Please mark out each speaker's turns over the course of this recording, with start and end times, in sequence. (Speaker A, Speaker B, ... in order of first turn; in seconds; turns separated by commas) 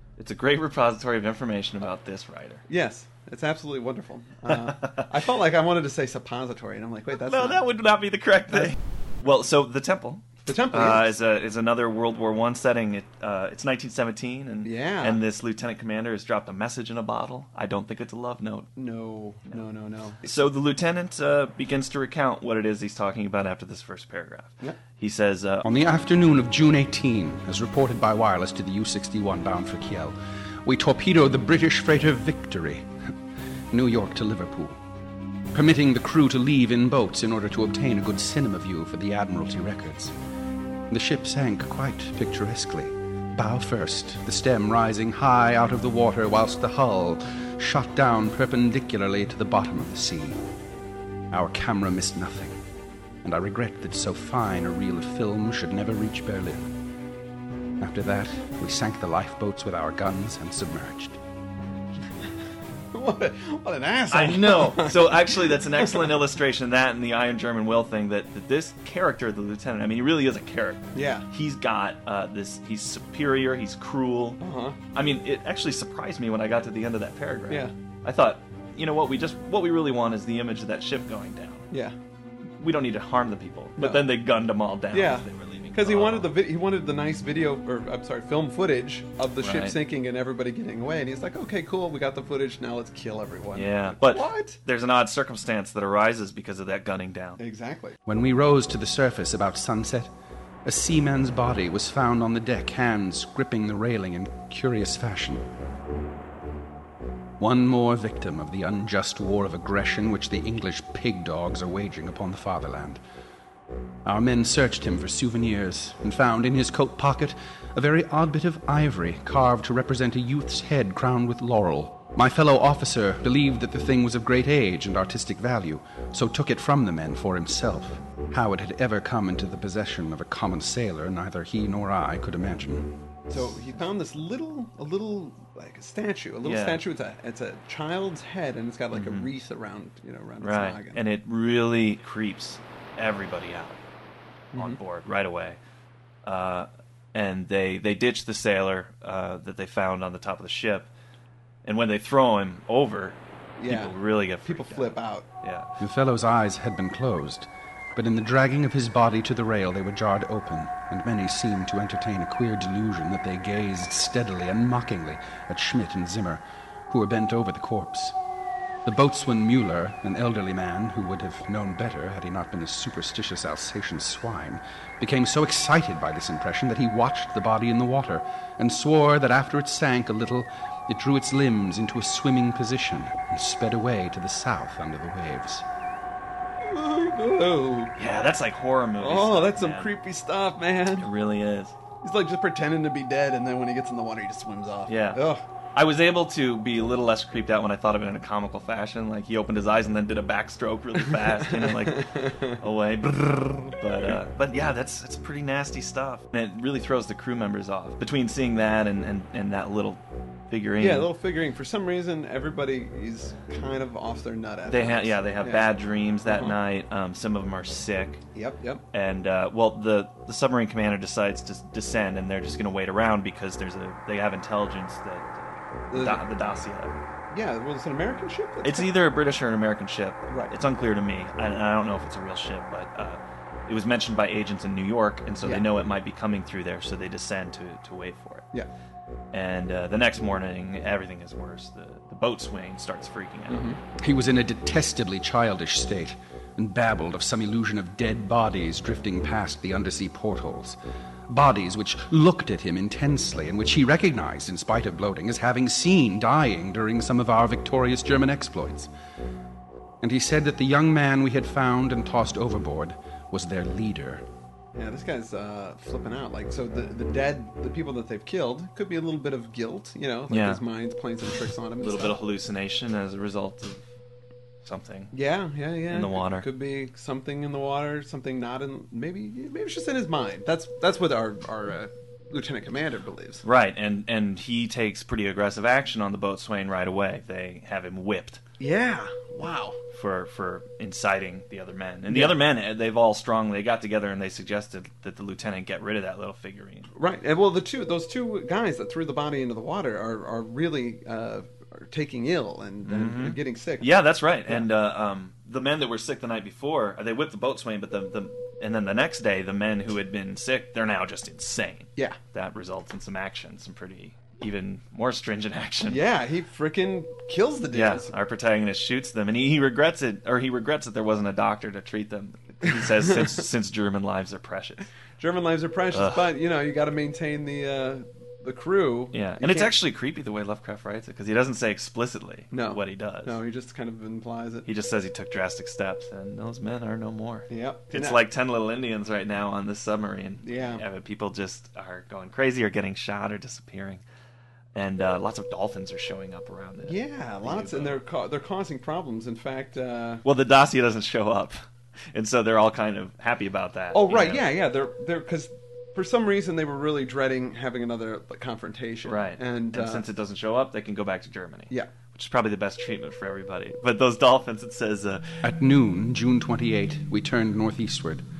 Speaker A: 0.2-2.6, Speaker B: 2.7-7.6, Speaker A: 4.5-5.1, Speaker A: 7.1-18.7, Speaker B: 10.4-11.1, Speaker B: 14.6-15.2, Speaker B: 18.8-20.2, Speaker A: 20.2-25.6, Speaker C: 25.6-32.9, Speaker C: 33.7-34.8, Speaker C: 35.5-40.1, Speaker C: 40.9-50.4, Speaker C: 51.3-52.6, Speaker C: 53.2-56.7, Speaker C: 57.8-61.2, Speaker B: 62.9-66.1, Speaker A: 64.1-74.4, Speaker B: 70.9-71.3, Speaker B: 74.4-74.8, Speaker A: 74.9-81.7, Speaker A: 82.6-86.3, Speaker B: 83.8-84.0, Speaker B: 84.9-94.6, Speaker A: 89.4-89.8, Speaker A: 93.5-97.4, Speaker B: 97.4-98.0, Speaker C: 98.0-100.1, Speaker C: 100.6-105.5, Speaker C: 107.4-113.0, Speaker C: 114.0-132.9, Speaker B: 133.3-141.0, Speaker A: 136.4-136.8, Speaker A: 138.9-139.3, Speaker A: 140.4-143.8, Speaker B: 144.5-144.8, Speaker A: 144.5-145.6, Speaker A: 146.2-150.9, Speaker A: 151.6-155.7, Speaker B: 153.6-155.3, Speaker C: 155.8-168.2, Speaker C: 168.8-185.6, Speaker B: 186.6-187.9, Speaker A: 187.9-189.9, Speaker B: 189.0-191.1, Speaker A: 191.0-191.7, Speaker B: 192.0-195.4, Speaker A: 194.9-195.2, Speaker A: 195.8-211.1, Speaker B: 201.1-202.6, Speaker B: 210.8-215.7, Speaker A: 214.7-218.2, Speaker B: 216.2-216.6, Speaker B: 218.3-218.8, Speaker A: 218.9-226.9, Speaker B: 225.9-226.3, Speaker B: 227.3-229.0, Speaker A: 228.6-238.5, Speaker B: 230.3-230.5, Speaker A: 239.3-243.8, Speaker B: 243.5-243.8, Speaker C: 244.0-250.8, Speaker C: 251.3-258.9, Speaker C: 260.0-264.2, Speaker B: 264.7-272.2, Speaker A: 270.3-270.6, Speaker A: 271.8-273.8, Speaker A: 274.6-275.1, Speaker B: 275.1-283.4, Speaker A: 275.9-276.4, Speaker A: 283.4-288.4, Speaker B: 288.6-289.8, Speaker A: 289.9-296.9, Speaker B: 292.1-292.3, Speaker B: 296.9-303.9, Speaker A: 302.8-316.0, Speaker B: 315.9-318.1, Speaker A: 317.7-324.9, Speaker B: 325.2-329.7, Speaker A: 325.9-326.3, Speaker A: 329.1-333.4, Speaker B: 332.5-334.7, Speaker A: 334.6-344.0, Speaker B: 337.5-338.2, Speaker B: 340.4-340.8, Speaker A: 344.7-348.0, Speaker B: 346.8-350.2, Speaker A: 350.2-354.4, Speaker B: 353.9-360.1, Speaker A: 359.0-365.3, Speaker C: 365.4-368.2